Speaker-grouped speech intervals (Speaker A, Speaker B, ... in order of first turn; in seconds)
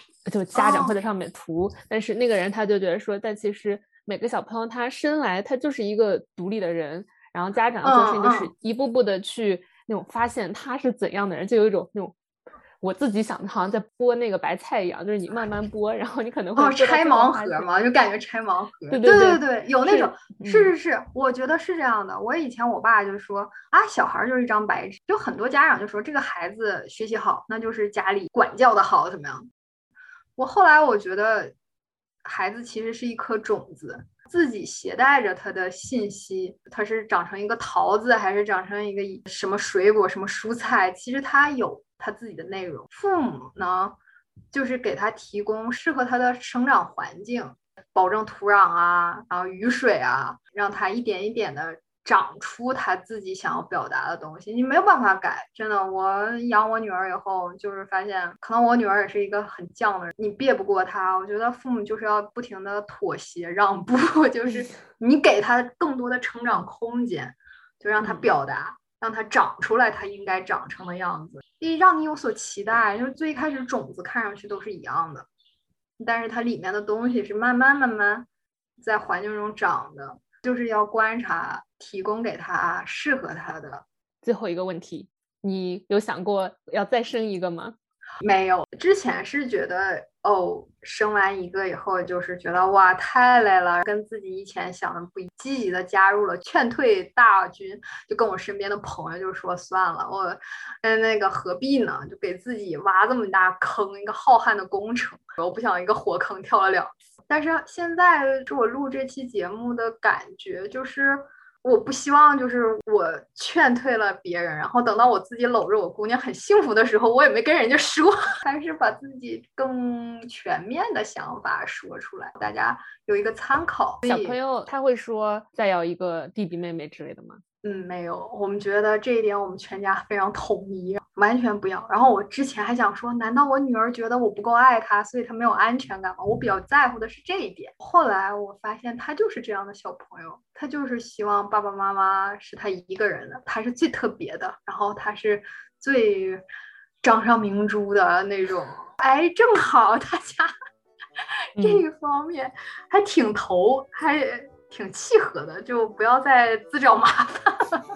Speaker A: 0.2-12.2, 12.8-17.7, 18.9-20.7, 68.0-68.3, 84.2-87.8, 124.0-127.4, 151.6-151.8
Speaker B: 0.6-0.9, 7.8-8.5, 16.6-29.5, 30.4-31.5, 32.2-44.0, 44.5-75.3, 76.0-78.3, 78.8-83.8, 88.2-124.4, 127.6-146.4, 147.0-150.5, 151.6-157.8